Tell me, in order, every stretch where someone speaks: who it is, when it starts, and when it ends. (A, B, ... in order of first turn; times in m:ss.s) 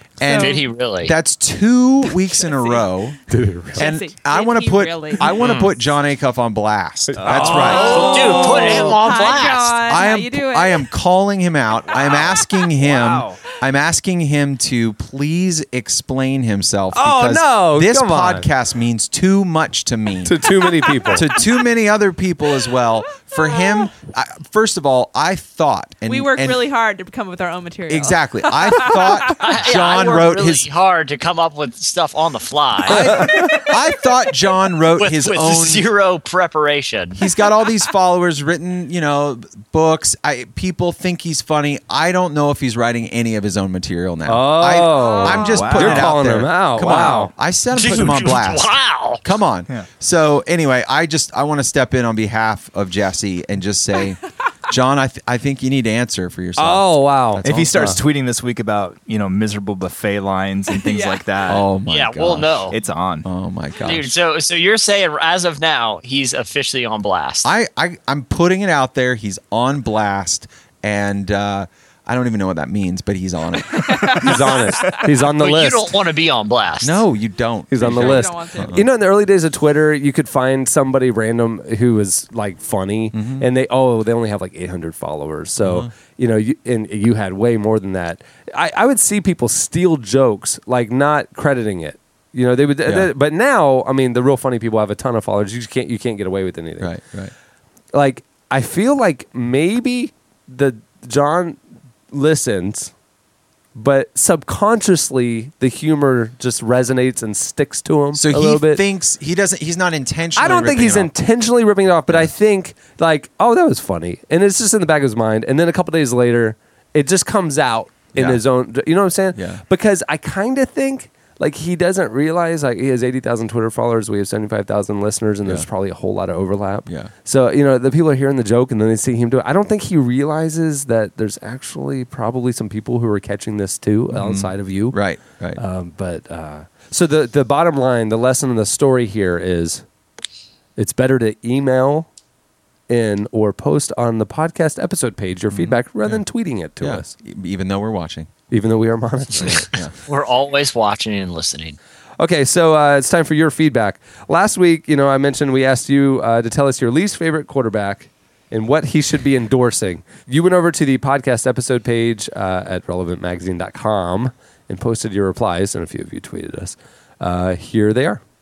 0:00.2-0:03.2 A
0:00.2-0:00.6 B
0:00.3-0:01.1 C
0:02.5-0:02.8 B
0:03.3-0:03.9 D
0:03.7-0:05.4 B
0:03.8-0:08.9 A
0:05.4-0:05.7 C
0:07.1-0:09.0 D
0:07.2-0:07.6 E
0:07.6-0:09.7 C
0:08.0-0:10.9 B
0:09.8-0:20.5 A
0:11.9-0:13.4 E
0:16.9-0:18.5 D
0:20.2-0:21.3 D
0:21.1-0:26.7 A
0:26.1-0:29.4 B
0:27.9-0:30.7 A
0:29.3-0:33.3 C
0:32.9-0:35.9 A
0:32.9-0:33.6 D
0:35.0-0:37.2 C
0:37.1-0:58.0 A
0:44.3-0:47.3 D
0:45.1-0:45.5 B
0:45.4-0:46.1 E
0:47.7-0:49.2 C
0:56.6-0:58.0 D
0:57.4-1:01.7 E
1:00.8-1:01.2 B
1:01.5-1:02.7 A
1:01.9-1:02.7 C
1:02.7-1:03.3 E
1:03.2-1:04.1 A
1:03.8-1:07.5 C
1:07.4-1:14.5 A
1:13.8-1:14.1 B
1:14.1-1:15.9 D
1:15.4-1:17.1 C
1:16.8-1:18.8 A
1:17.7-1:36.9 D
1:17.8-1:18.8 B
1:23.1-1:23.4 A
1:25.6-1:25.9 A
1:32.8-1:33.1 A
1:36.8-1:37.3 A
1:37.9-1:41.6 D
1:42.1-1:42.9 D
1:43.7-1:48.8 D
1:48.1-1:51.1 A
1:50.4-2:15.0 D
1:58.1-1:58.4 A
1:59.4-1:59.6 A
2:14.1-2:15.6 A
2:15.6-2:19.8 D
2:20.8-2:22.1 D
2:22.9-2:27.1 D
2:25.5-2:26.2 A
2:26.8-2:28.3 A
2:28.5-2:29.7 D
2:29.4-2:29.9 A
2:30.1-2:31.8 C
2:32.2-2:48.2 D